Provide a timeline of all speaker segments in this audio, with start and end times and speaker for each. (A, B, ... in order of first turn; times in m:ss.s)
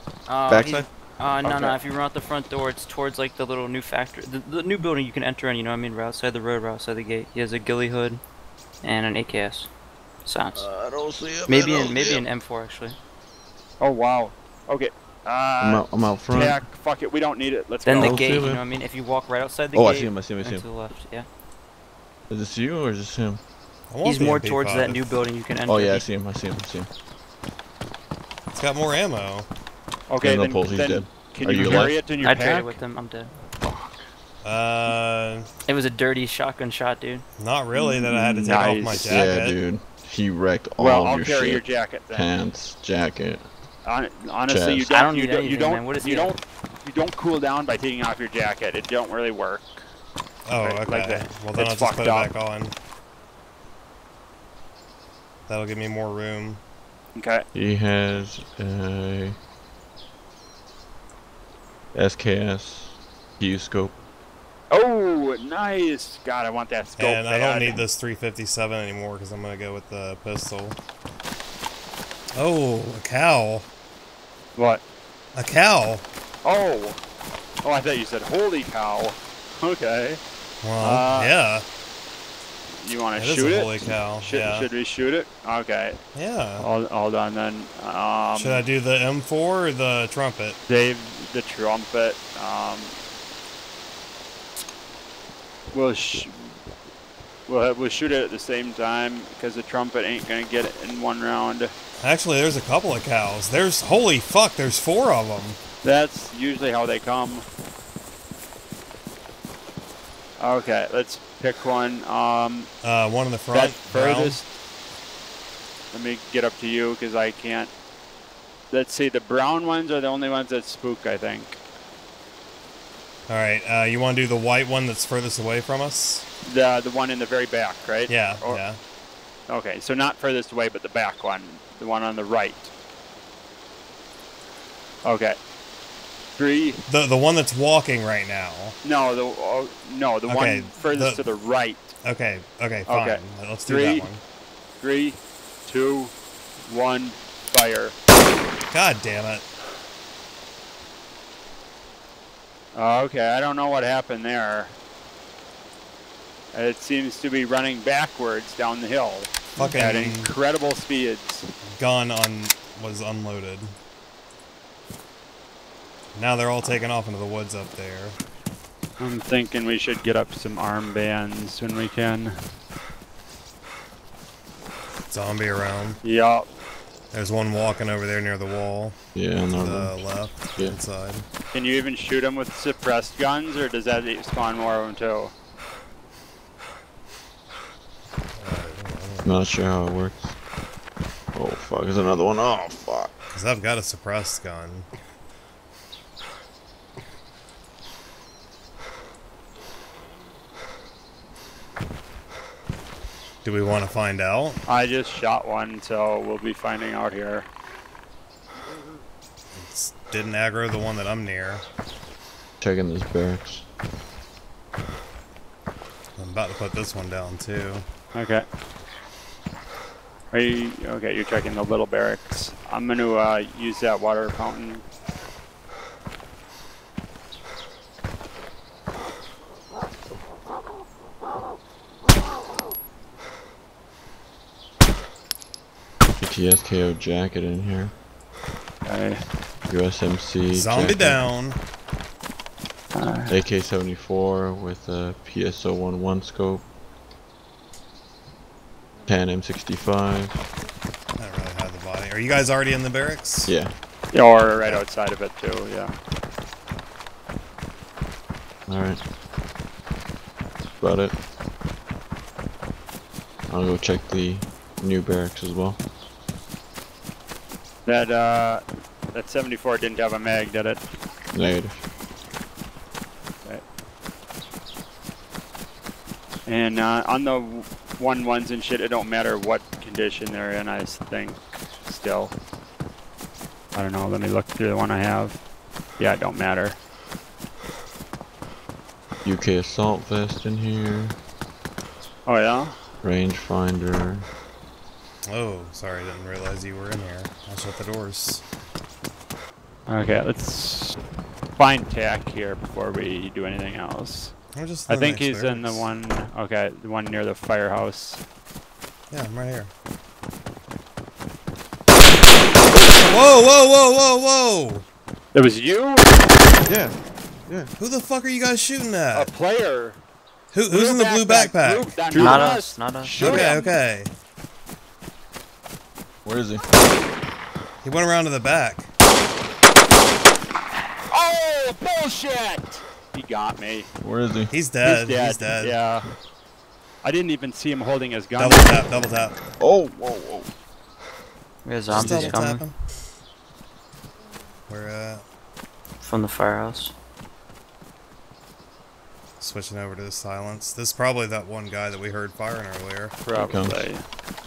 0:00.3-0:08.2 A
0:00.5-0:00.9 B
0:01.4-0:01.8 C
0:08.8-0:09.7 A
0:10.2-0:10.7 A
0:10.6-0:12.3 B
0:11.5-0:13.0 A
0:13.8-0:18.2 C
0:15.6-0:16.6 B
0:17.8-0:21.3 A
0:18.0-0:18.6 B
0:19.7-0:20.7 B
0:22.3-0:23.4 B
0:23.9-0:25.2 D
0:24.0-0:26.1 A
0:25.7-0:26.9 B
0:28.5-0:29.5 D
0:30.1-0:32.8 C
0:30.2-0:32.1 B
0:32.2-0:33.3 A
0:34.4-0:35.5 D
0:35.7-0:37.2 A
0:37.4-0:39.6 D
0:37.7-0:39.3 C
0:38.9-0:43.4 B
0:40.8-0:42.3 C
0:43.8-0:49.8 C
0:44.5-0:44.9 B
0:44.9-0:46.4 A
0:50.5-0:52.7 D
0:50.6-0:52.3 C
0:55.5-0:56.6 D
0:57.2-0:57.4 C
0:57.5-0:59.4 B
1:01.9-1:04.0 B
1:04.7-1:07.8 C
1:07.0-1:10.8 D
1:12.4-1:13.7 D
1:14.6-1:14.8 C
1:15.4-1:16.0 D
1:16.4-1:17.0 C
1:17.6-1:20.2 C
1:20.6-1:21.6 D
1:20.8-1:21.3 C
1:22.8-1:26.0 C
1:23.2-1:24.7 D
1:26.2-1:26.7 D
1:26.6-1:28.7 C
1:28.4-1:30.6 D
1:30.7-1:33.0 C
1:35.7-1:36.6 C
1:37.5-1:41.7 C
1:42.0-1:45.6 D
1:45.8-1:47.4 C
1:50.4-1:52.7 C
1:52.8-1:54.4 D
1:53.5-1:54.5 C
1:55.9-1:57.7 C
1:58.7-2:01.6 C
2:03.3-2:06.2 D
2:06.4-2:08.6 C
2:08.1-2:08.8 D
2:09.5-2:12.7 C
2:15.0-2:15.4 C
2:16.4-2:16.8 C
2:16.9-2:18.8 D
2:18.8-2:21.9 C
2:20.3-2:21.2 D
2:22.0-2:24.2 D
2:22.9-2:24.1 C
2:24.8-2:26.1 C
2:26.6-2:28.0 C
2:28.7-2:29.4 D
2:32.7-2:34.8 C
2:36.5-2:41.5 C
2:39.6-2:40.3 D
2:41.8-2:43.7 D
2:46.2-2:48.2 D
2:49.0-2:52.3 C
2:55.1-2:56.0 D
2:56.0-2:56.5 C
2:57.1-2:59.0 D
2:59.2-3:00.0 B
2:59.5-3:01.3 D
3:01.5-3:05.3 C
3:08.4-3:09.4 D
3:09.2-3:10.4 B
3:11.4-3:13.1 B
3:13.3-3:14.9 D
3:23.4-3:24.6 D
3:24.7-3:27.5 C
3:29.5-3:31.6 D
3:32.6-3:33.6 B
3:36.2-3:37.8 D
3:38.2-3:38.4 C
3:40.3-3:44.9 C
3:56.2-3:57.9 B
3:58.8-3:59.2 C
3:59.7-4:01.3 B
4:00.5-4:01.6 D
4:03.0-4:03.4 C
4:03.3-4:06.7 B
4:09.1-4:10.5 B
4:11.2-4:13.5 D
4:13.5-4:13.7 B
4:14.1-4:15.9 C
4:18.7-4:19.0 B
4:20.8-4:21.2 B
4:23.5-4:25.8 B
4:27.9-4:28.6 C
4:29.1-4:30.9 C
4:31.3-4:31.8 B
4:36.5-4:42.4 C
4:43.8-4:45.4 C
4:46.0-4:46.8 C
4:49.2-4:51.2 B
4:52.3-4:52.8 C
4:53.0-4:54.3 B
4:55.3-4:58.4 D
4:59.9-5:01.0 C
5:01.6-5:04.4 C
5:04.5-5:05.9 D
5:04.9-5:08.2 C
5:09.1-5:09.7 D
5:13.0-5:14.9 D
5:15.3-5:16.2 C
5:17.8-5:19.3 D
5:19.1-5:20.0 C
5:20.5-5:22.0 D
5:20.7-5:23.8 C
5:22.1-5:22.4 B
5:22.1-5:23.2 A
5:23.2-5:24.1 D
5:26.2-5:26.6 B
5:27.8-5:28.9 D
5:31.1-5:33.9 C
5:34.0-5:34.5 B
5:34.5-5:35.8 D
5:34.8-5:36.0 C
5:37.0-5:38.9 C
5:38.4-5:39.4 D
5:39.6-5:40.5 B
5:41.6-5:42.6 A
5:41.9-5:42.8 D
5:44.7-5:45.2 D
5:46.0-5:46.9 A
5:49.4-5:53.2 D
5:53.2-5:54.0 C
5:53.4-5:53.9 B